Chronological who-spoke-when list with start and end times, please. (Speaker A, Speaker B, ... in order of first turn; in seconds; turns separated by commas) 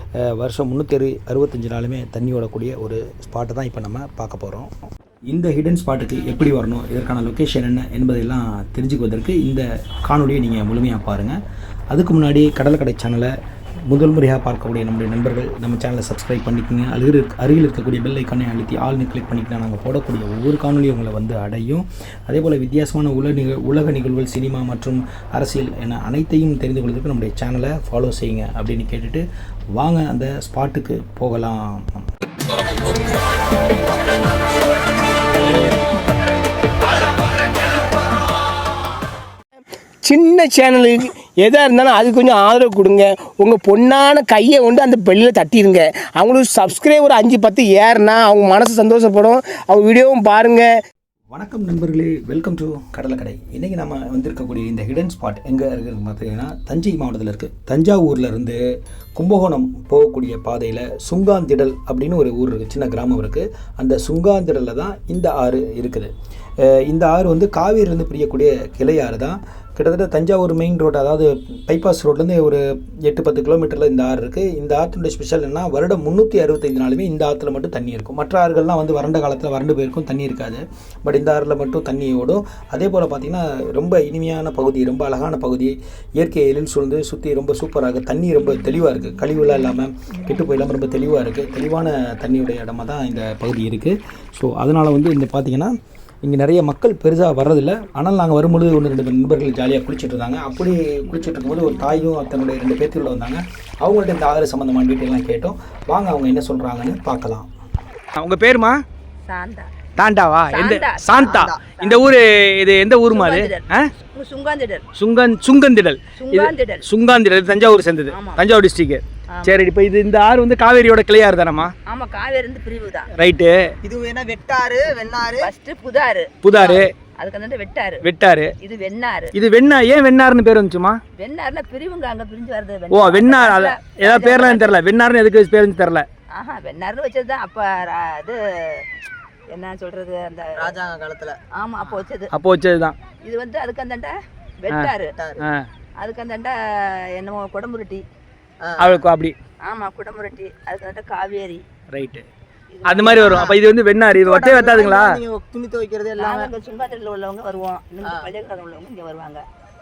Speaker A: 0.3-4.7, Speaker A: 5.3-11.4, Speaker A: 11.9-13.3, Speaker A: 13.9-29.2, Speaker A: 29.8-32.0, Speaker B: 40.1-50.7, Speaker A: 51.3-58.6, Speaker A: 59.2-66.1, Speaker A: 66.6-107.5, Speaker C: 108.2-108.8, Speaker D: 109.3-109.8, Speaker C: 110.0-113.8, Speaker D: 110.5-112.1, Speaker E: 111.2-111.7, Speaker D: 113.1-114.9, Speaker C: 115.0-121.7, Speaker D: 116.2-116.9, Speaker D: 118.1-118.4, Speaker D: 121.9-123.1, Speaker C: 123.2-123.6, Speaker E: 123.8-125.5, Speaker D: 125.4-128.1, Speaker C: 126.4-126.9, Speaker C: 128.0-128.5, Speaker D: 128.6-129.3, Speaker C: 129.3-131.0, Speaker D: 131.2-134.8, Speaker C: 132.9-136.1, Speaker D: 136.3-138.9, Speaker D: 139.5-140.8, Speaker E: 140.6-141.4, Speaker D: 141.6-142.3, Speaker C: 142.3-143.0, Speaker D: 143.2-145.2, Speaker E: 145.2-145.4, Speaker D: 146.0-148.1, Speaker E: 148.6-149.1, Speaker C: 148.8-149.3, Speaker D: 149.7-151.7, Speaker C: 151.9-152.3, Speaker D: 152.7-153.5, Speaker C: 152.8-155.2, Speaker E: 153.1-153.6, Speaker E: 154.2-156.5, Speaker D: 156.2-159.4, Speaker E: 158.0-158.3